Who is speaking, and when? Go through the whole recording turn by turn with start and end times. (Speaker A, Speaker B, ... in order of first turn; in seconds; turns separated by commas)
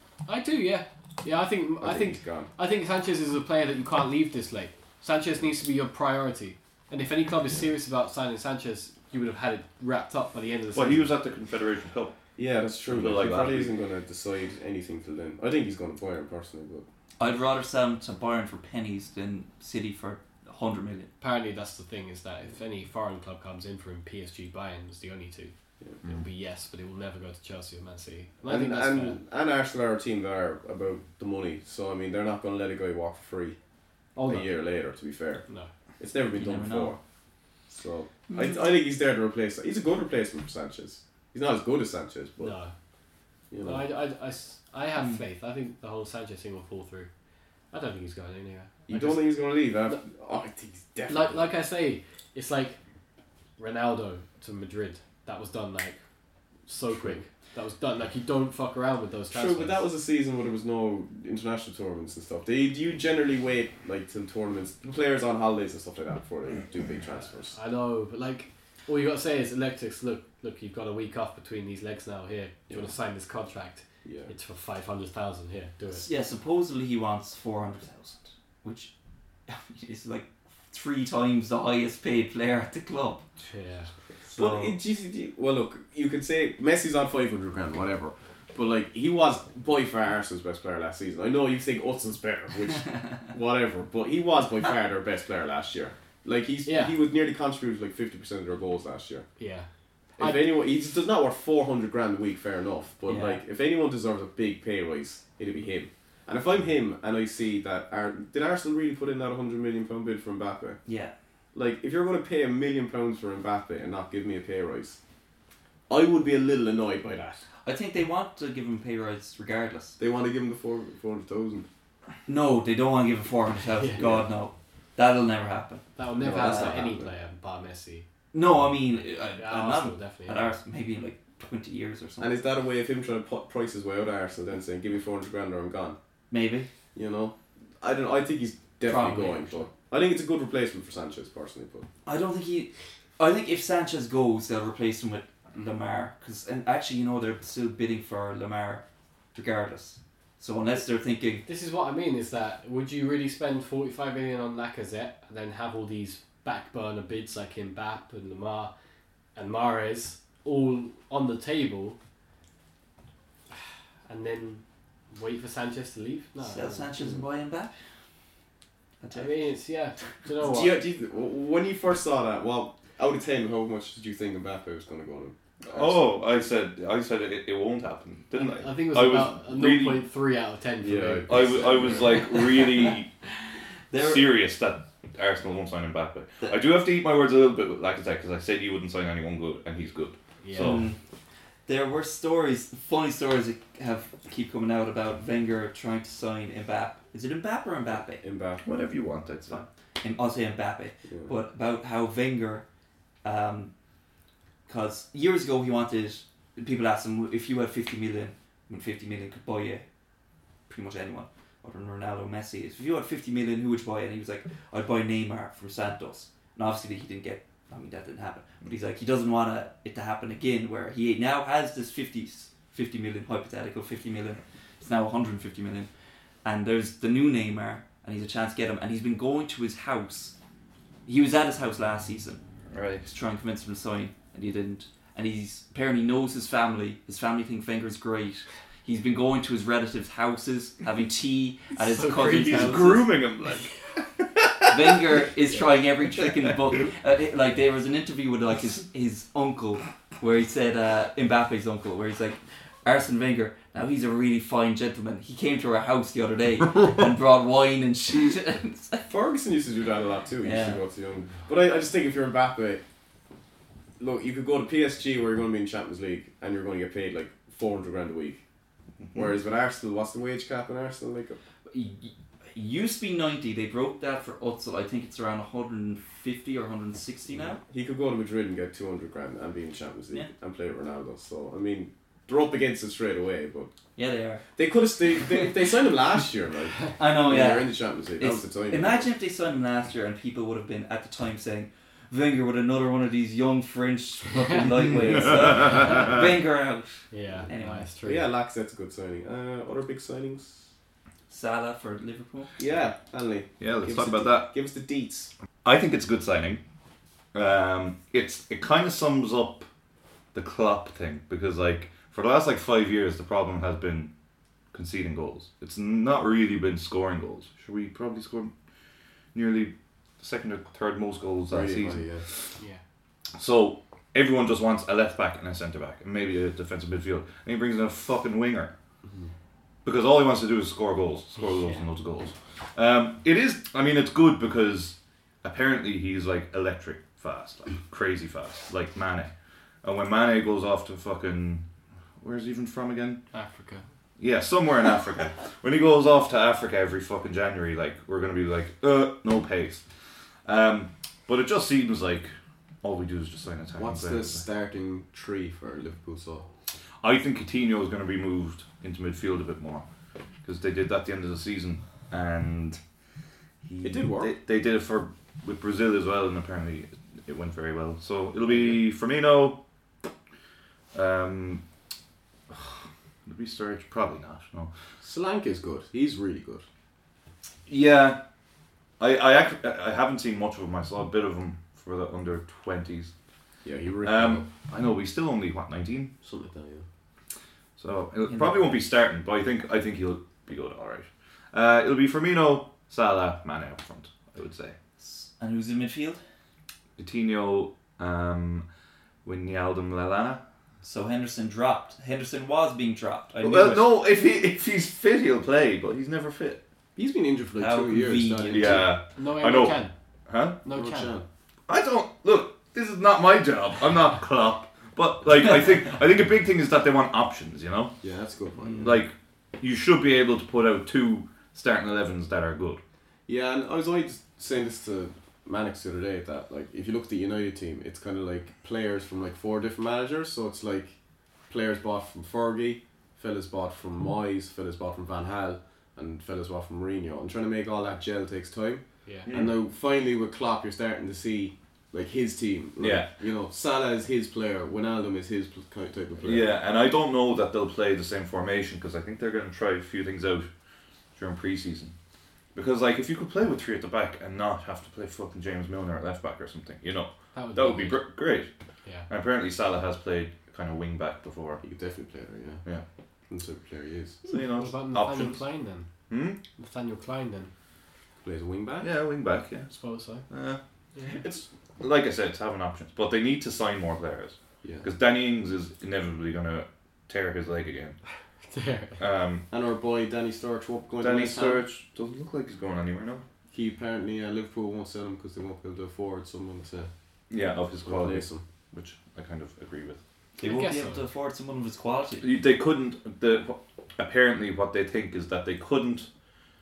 Speaker A: 0.3-11.1, Speaker B: 1.8-2.5, Speaker C: 10.7-12.2, Speaker B: 12.4-16.9, Speaker C: 12.9-13.7, Speaker D: 17.2-21.1, Speaker A: 21.2-29.2, Speaker B: 28.5-33.6, Speaker A: 34.2-34.5, Speaker B: 34.3-35.5, Speaker B: 36.0-37.0, Speaker D: 36.3-37.0, Speaker B: 37.7-42.5, Speaker D: 38.3-38.6, Speaker A: 42.4-42.7, Speaker B: 43.5-43.9, Speaker A: 43.6-47.1, Speaker D: 45.0-45.2, Speaker A: 47.7-49.3, Speaker B: 48.9-51.5, Speaker A: 51.1-52.8, Speaker A: 53.6-56.0, Speaker A: 56.7-59.9, Speaker B: 59.3-67.6, Speaker A: 67.5-76.1, Speaker B: 74.0-74.3, Speaker D: 75.9-78.9, Speaker D: 79.5-83.2, Speaker A: 83.4-83.9, Speaker B: 84.3-99.3, Speaker D: 84.3-84.8, Speaker A: 96.7-96.9, Speaker A: 99.4-99.7, Speaker A: 100.2-100.5, Speaker B: 100.2-110.8, Speaker D: 103.1-103.4, Speaker D: 110.9-111.1, Speaker B: 111.5-115.0, Speaker B: 115.9-117.4, Speaker D: 117.7-120.0, Speaker B: 120.0-121.7, Speaker D: 122.3-126.7, Speaker A: 123.8-124.2, Speaker B: 124.0-124.2, Speaker A: 126.0-128.1, Speaker B: 126.2-127.1, Speaker D: 128.3-132.3, Speaker A: 129.4-130.4, Speaker B: 132.2-136.0, Speaker D: 136.3-136.7, Speaker B: 136.9-141.9, Speaker D: 138.8-139.7, Speaker D: 142.1-151.4, Speaker A: 151.5-158.7, Speaker A: 159.4-162.0, Speaker A: 164.1-166.9, Speaker D: 166.4-167.7, Speaker D: 169.0-169.4, Speaker A: 169.1-170.8, Speaker B: 170.4-176.1, Speaker C: 175.7-180.1, Speaker A: 178.3-182.0, Speaker B: 180.8-182.1, Speaker C: 181.3-183.1, Speaker D: 182.3-182.9, Speaker D: 183.9-184.3, Speaker C: 183.9-190.9, Speaker A: 190.4-190.9, Speaker D: 190.6-191.0, Speaker D: 191.7-198.2, Speaker B: 198.2-198.9, Speaker C: 198.6-199.7, Speaker D: 199.5-202.7, Speaker D: 203.2-203.7, Speaker D: 204.7-209.8, Speaker D: 210.7-225.9, Speaker D: 226.4-230.3, Speaker D: 231.1-232.4, Speaker C: 232.7-233.1, Speaker D: 233.0-243.1, Speaker A: 241.8-243.1, Speaker C: 242.5-243.7, Speaker C: 244.2-245.0, Speaker D: 244.7-259.0, Speaker B: 259.1-262.8, Speaker D: 260.4-260.8, Speaker B: 264.0-268.4, Speaker B: 269.1-271.4, Speaker D: 271.7-277.6, Speaker B: 277.7-283.7, Speaker D: 284.0-284.4, Speaker B: 284.6-289.1, Speaker D: 285.2-285.5, Speaker D: 287.0-297.9, Speaker A: 294.3-295.8, Speaker C: 295.2-296.2, Speaker A: 297.1-298.3, Speaker B: 298.0-300.6, Speaker D: 301.3-302.5, Speaker B: 302.6-305.3, Speaker C: 303.6-304.5, Speaker C: 305.6-306.6, Speaker C: 307.3-309.7, Speaker C: 310.3-314.1, Speaker C: 314.7-318.5, Speaker C: 319.3-322.5, Speaker B: 321.5-322.2, Speaker C: 323.4-328.8, Speaker B: 329.1-329.3, Speaker C: 329.9-339.3, Speaker A: 331.4-331.9, Speaker C: 339.8-341.6, Speaker C: 342.2-343.2, Speaker A: 343.3-343.8, Speaker C: 344.2-349.8, Speaker C: 350.4-354.4, Speaker B: 353.8-356.5, Speaker C: 357.0-359.8, Speaker C: 360.4-362.8, Speaker C: 363.6-369.6, Speaker B: 363.8-364.3, Speaker C: 370.9-371.6, Speaker C: 372.5-374.7, Speaker B: 375.0-376.6, Speaker C: 377.7-378.2, Speaker C: 379.0-383.1, Speaker B: 383.6-384.5, Speaker C: 384.0-386.1, Speaker B: 386.2-386.9, Speaker C: 387.8-394.8, Speaker D: 388.2-388.7, Speaker D: 395.0-396.2, Speaker C: 397.0-398.7, Speaker C: 399.2-400.4, Speaker D: 400.8-403.9, Speaker C: 403.4-406.6, Speaker B: 407.0-408.9, Speaker D: 407.6-408.9, Speaker C: 408.5-410.6, Speaker A: 409.2-409.9, Speaker A: 410.6-411.2, Speaker B: 410.7-411.3, Speaker C: 411.7-417.9, Speaker B: 418.0-418.9, Speaker C: 418.8-422.8, Speaker B: 423.3-446.5, Speaker C: 439.2-439.6, Speaker C: 442.8-443.1, Speaker C: 446.2-450.5, Speaker C: 451.2-451.9, Speaker C: 452.5-458.5, Speaker A: 457.3-458.1, Speaker C: 459.1-461.6, Speaker B: 461.6-462.6, Speaker B: 463.3-464.2, Speaker C: 464.2-465.4, Speaker A: 464.6-465.9, Speaker C: 466.1-466.4, Speaker A: 466.6-467.5, Speaker B: 468.2-468.9, Speaker C: 468.8-469.7, Speaker A: 469.7-470.3, Speaker C: 470.3-478.0, Speaker A: 470.9-471.2, Speaker A: 478.5-479.0, Speaker C: 479.0-479.4, Speaker B: 479.5-481.6, Speaker C: 481.0-483.2, Speaker B: 483.5-486.9, Speaker C: 487.3-490.0, Speaker B: 487.9-488.4, Speaker D: 490.4-492.3, Speaker A: 490.4-491.0, Speaker C: 492.2-496.1